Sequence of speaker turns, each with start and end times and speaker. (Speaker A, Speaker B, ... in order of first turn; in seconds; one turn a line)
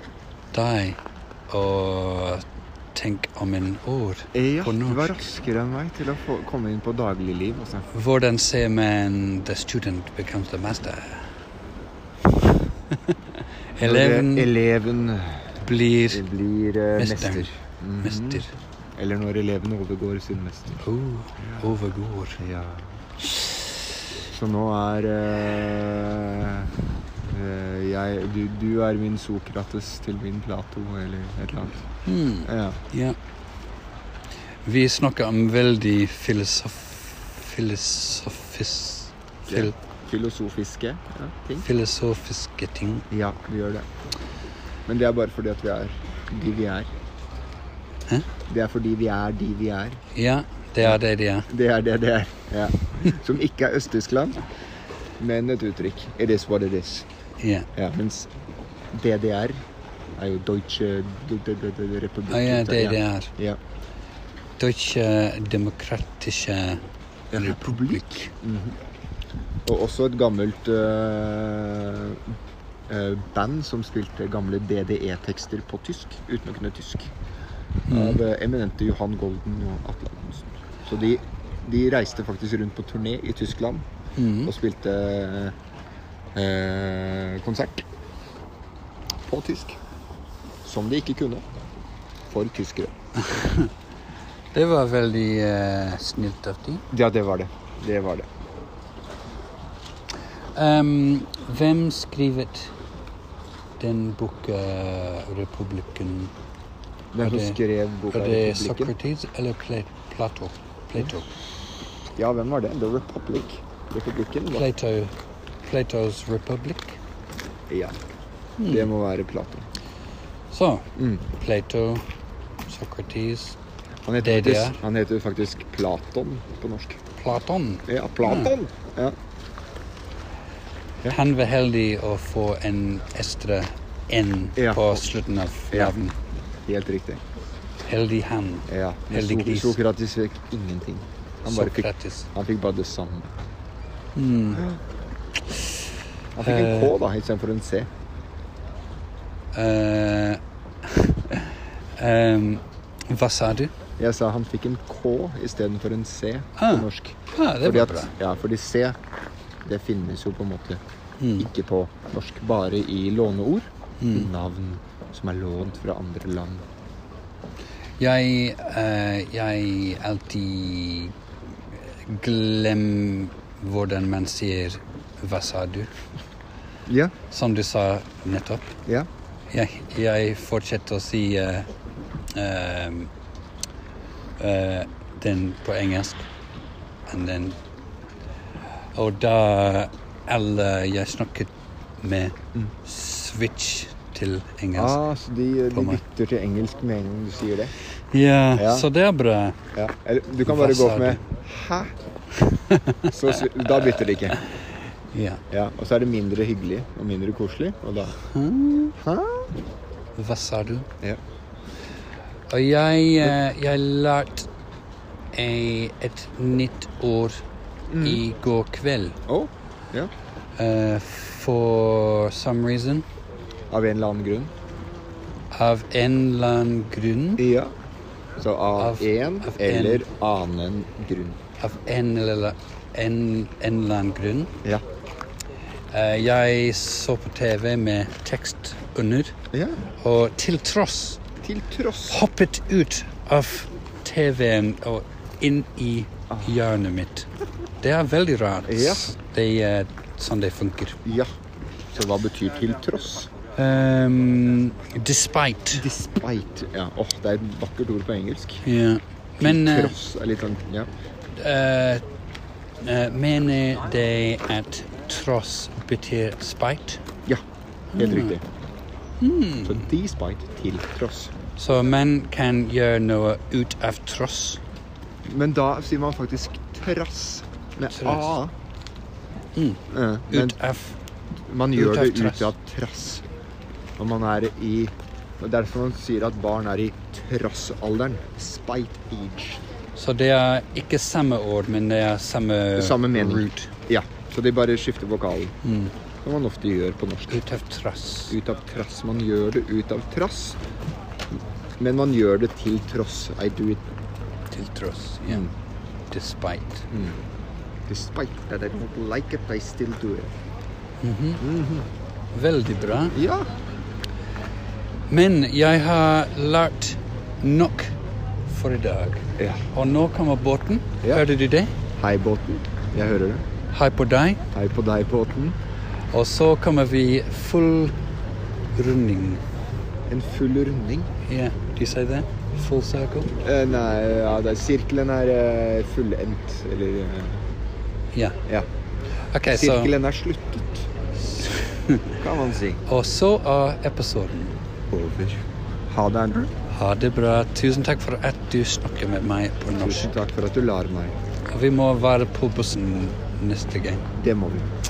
Speaker A: 0.5-5.2
Speaker B: 4.3-7.9
Speaker A: 7.9-11.2
Speaker A: 13.7-14.5
Speaker B: 13.8-20.8
Speaker A: 15.6-16.2
Speaker A: 16.9-17.5
Speaker A: 18.0-18.5
Speaker A: 20.8-22.4
Speaker B: 21.4-21.7
Speaker B: 22.4-22.9
Speaker B: 24.3-26.7
Speaker B: 27.3-31.8
Speaker A: 32.0-33.2
Speaker B: 32.4-32.8
Speaker A: 34.6-39.7
Speaker B: 39.5-41.6
Speaker A: 41.6-43.1
Speaker B: 43.1-43.9
Speaker B: 44.9-46.9
Speaker B: 48.5-50.0
Speaker A: 50.1-51.5
Speaker B: 50.8-54.4
Speaker B: 55.2-57.0
Speaker A: 57.4-57.7
Speaker B: 57.7-58.3
Speaker B: 58.9-59.6
Speaker B: 60.2-63.6
Speaker A: 62.3-63.3
Speaker A: 64.6-66.8
Speaker B: 67.3-68.8
Speaker A: 67.3-68.3
Speaker B: 69.6-72.2
Speaker B: 72.9-77.1
Speaker A: 77.9-78.2
Speaker B: 77.9-83.8
Speaker A: 84.2-84.5
Speaker B: 84.4-85.5
Speaker B: 86.3-87.8
Speaker B: 89.3-89.8
Speaker B: 90.6-91.5
Speaker B: 92.3-92.9
Speaker A: 93.2-93.7
Speaker A: 94.5-96.8
Speaker B: 96.9-98.3
Speaker A: 100.5-102.7
Speaker A: 103.8-106.3
Speaker B: 107.1-108.9
Speaker A: 107.2-107.6
Speaker A: 108.1-111.3
Speaker B: 112.2-114.7
Speaker A: 114.5-115.1
Speaker A: 115.6-117.0
Speaker B: 117.7-118.0
Speaker A: 118.6-118.9
Speaker B: 118.6-119.7
Speaker A: 120.5-122.0
Speaker B: 121.0-121.2
Speaker A: 122.7-123.6
Speaker B: 124.0-127.0
Speaker A: 124.2-124.8
Speaker A: 127.2-128.5
Speaker B: 127.9-129.2
Speaker A: 131.1-136.1
Speaker B: 134.6-135.1
Speaker B: 135.7-136.0
Speaker B: 136.7-137.2
Speaker A: 137.8-139.8
Speaker B: 138.7-143.3
Speaker A: 141.5-142.3
Speaker A: 144.2-144.6
Speaker B: 144.5-144.8
Speaker B: 146.3-147.9
Speaker A: 146.4-146.9
Speaker A: 149.5-153.7
Speaker B: 154.0-158.9
Speaker A: 156.6-158.1
Speaker B: 159.6-160.8
Speaker A: 161.2-161.5
Speaker B: 161.4-166.7
Speaker A: 164.0-164.3
Speaker A: 168.0-171.1
Speaker A: 171.7-175.9
Speaker B: 176.8-177.1
Speaker A: 177.3-178.7
Speaker A: 179.5-181.7
Speaker A: 182.3-183.1
Speaker A: 184.4-186.3
Speaker A: 187.1-187.6
Speaker A: 188.9-195.0
Speaker B: 194.7-197.7
Speaker A: 195.7-196.0
Speaker A: 198.1-199.6
Speaker B: 198.6-198.9
Speaker B: 199.7-201.9
Speaker A: 200.5-201.2
Speaker A: 202.4-203.2
Speaker B: 203.1-204.4
Speaker A: 205.1-205.4
Speaker B: 205.5-208.2
Speaker A: 208.2-208.9
Speaker B: 209.0-209.5
Speaker A: 210.2-210.9
Speaker A: 212.5-214.5
Speaker A: 215.3-217.4
Speaker B: 217.9-218.2
Speaker A: 218.0-219.2
Speaker B: 219.2-220.1
Speaker A: 220.6-223.0
Speaker B: 223.7-224.5
Speaker A: 225.5-227.4
Speaker B: 227.4-227.7
Speaker B: 228.4-231.4
Speaker A: 228.8-230.0
Speaker A: 231.6-234.5
Speaker A: 235.9-239.3
Speaker B: 239.5-239.8
Speaker A: 240.0-241.2
Speaker B: 241.4-242.2
Speaker A: 242.1-247.3
Speaker B: 246.3-246.6
Speaker A: 247.8-251.0
Speaker B: 248.7-249.1
Speaker B: 251.9-253.3
Speaker A: 253.6-255.8
Speaker B: 255.7-258.6
Speaker A: 258.6-259.9
Speaker B: 259.4-260.9
Speaker A: 261.4-262.0
Speaker A: 262.8-267.0
Speaker A: 267.9-268.4
Speaker B: 267.9-268.4
Speaker A: 269.2-269.9
Speaker B: 269.6-271.3
Speaker A: 271.6-274.6
Speaker B: 275.2-278.5
Speaker A: 277.9-278.3
Speaker A: 279.5-280.9
Speaker B: 279.9-280.6
Speaker B: 281.5-283.2
Speaker A: 281.7-282.5
Speaker B: 284.0-289.6
Speaker A: 289.9-293.7
Speaker B: 292.7-295.5
Speaker A: 295.6-295.9
Speaker B: 296.2-297.4
Speaker A: 297.3-298.4
Speaker B: 298.3-300.6
Speaker B: 301.8-303.8
Speaker A: 304.5-305.5
Speaker A: 306.1-306.9
Speaker B: 306.9-307.2
Speaker B: 307.9-310.3
Speaker A: 311.0-311.4
Speaker B: 311.4-311.9
Speaker A: 312.3-313.2
Speaker B: 313.1-313.5
Speaker A: 315.1-321.7
Speaker B: 319.4-319.6
Speaker B: 322.0-323.4
Speaker A: 323.7-324.4
Speaker B: 324.5-325.6
Speaker A: 326.1-327.9
Speaker A: 328.7-329.4
Speaker B: 330.1-331.1
Speaker A: 331.3-333.3
Speaker B: 333.4-337.4
Speaker A: 338.1-338.4
Speaker A: 339.3-339.9
Speaker B: 339.5-340.9
Speaker A: 341.3-342.1
Speaker B: 342.2-342.8
Speaker A: 342.8-344.6
Speaker B: 344.9-346.5
Speaker A: 346.7-350.1
Speaker B: 349.8-351.1
Speaker A: 351.5-354.1
Speaker B: 354.2-354.7